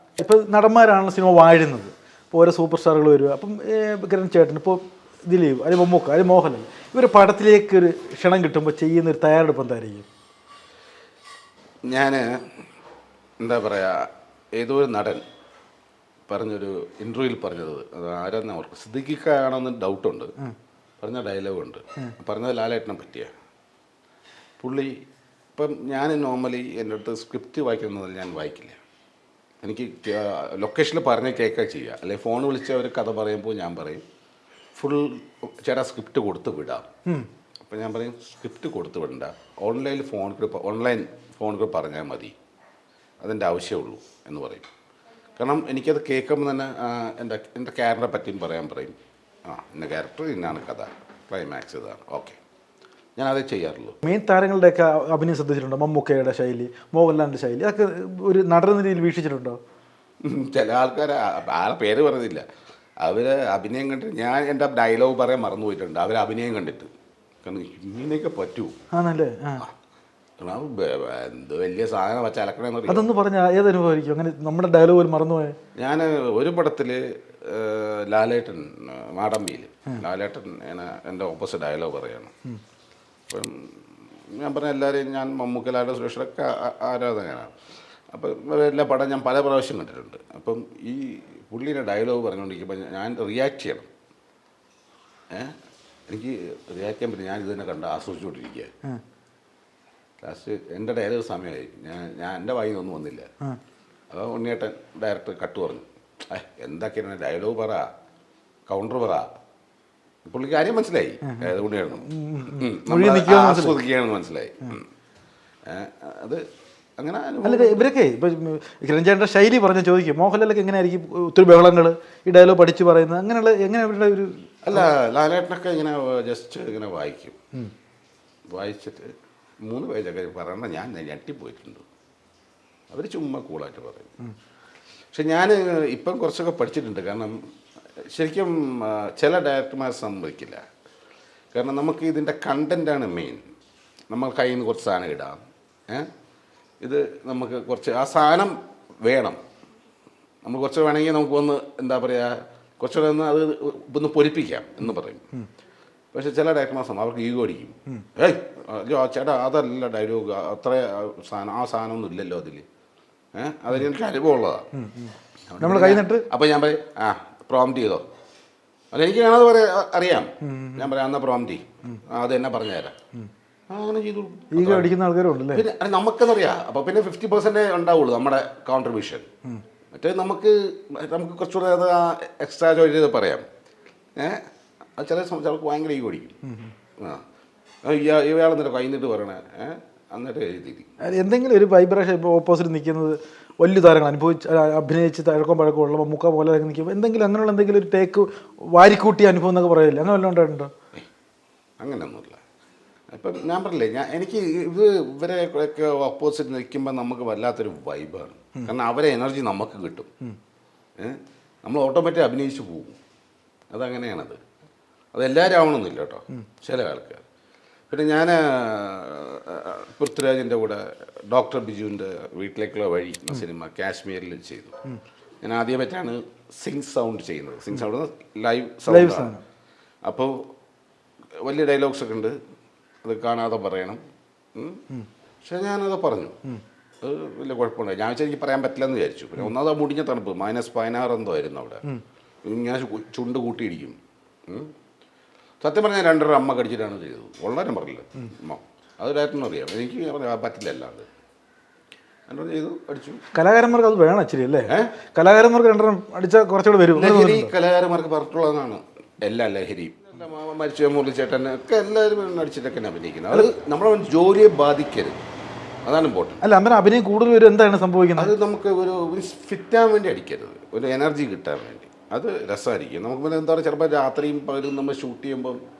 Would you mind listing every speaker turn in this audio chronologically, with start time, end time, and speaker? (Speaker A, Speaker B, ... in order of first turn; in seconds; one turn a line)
Speaker A: 0.2-10.1
Speaker B: 11.8-12.6
Speaker B: 13.4-15.2
Speaker B: 16.3-20.3
Speaker B: 21.0-23.3
Speaker B: 24.6-25.0
Speaker B: 25.5-28.8
Speaker B: 29.6-34.0
Speaker B: 34.8-36.9
Speaker B: 37.6-42.3
Speaker B: 43.2-44.7
Speaker B: 45.4-48.9
Speaker B: 49.5-52.4
Speaker B: 53.2-54.0
Speaker A: 54.0-59.6
Speaker B: 60.2-62.5
Speaker B: 63.0-66.9
Speaker B: 67.4-68.8
Speaker A: 68.9-69.6
Speaker B: 70.4-73.0
Speaker A: 72.9-75.5
Speaker B: 75.8-82.3
Speaker B: 83.3-87.5
Speaker B: 88.1-93.9
Speaker B: 96.1-98.7
Speaker B: 100.2-103.3
Speaker B: 104.1-107.9
Speaker B: 108.7-109.3
Speaker B: 110.2-114.9
Speaker A: 111.2-111.5
Speaker A: 112.1-113.8
Speaker B: 115.7-116.4
Speaker B: 117.0-117.9
Speaker A: 117.4-124.9
Speaker B: 124.6-127.4
Speaker B: 128.5-131.8
Speaker B: 132.9-134.2
Speaker B: 135.1-137.3
Speaker B: 138.0-140.6
Speaker B: 141.5-143.4
Speaker B: 144.1-146.1
Speaker B: 146.8-149.4
Speaker B: 150.4-155.2
Speaker B: 156.1-162.6
Speaker B: 163.3-164.7
Speaker A: 164.7-166.2
Speaker B: 165.5-168.0
Speaker B: 168.9-172.9
Speaker A: 170.4-170.9
Speaker B: 173.7-174.9
Speaker A: 174.5-175.6
Speaker B: 175.5-179.3
Speaker B: 179.9-183.4
Speaker B: 185.0-186.3
Speaker A: 186.4-186.7
Speaker B: 187.8-190.9
Speaker A: 191.0-200.7
Speaker B: 201.8-202.4
Speaker B: 203.1-210.1
Speaker B: 211.0-213.0
Speaker B: 213.7-214.4
Speaker B: 215.1-217.2
Speaker B: 217.9-224.7
Speaker B: 225.4-229.3
Speaker A: 228.9-229.4
Speaker B: 230.0-230.4
Speaker B: 231.4-232.4
Speaker B: 233.0-234.0
Speaker B: 234.5-234.8
Speaker B: 235.4-236.3
Speaker B: 237.0-241.8
Speaker B: 242.4-243.9
Speaker B: 244.5-244.7
Speaker B: 245.6-251.1
Speaker B: 252.3-253.2
Speaker A: 253.3-257.5
Speaker B: 254.7-254.9
Speaker B: 256.9-265.2
Speaker B: 265.8-266.4
Speaker A: 266.4-268.3
Speaker B: 268.1-275.6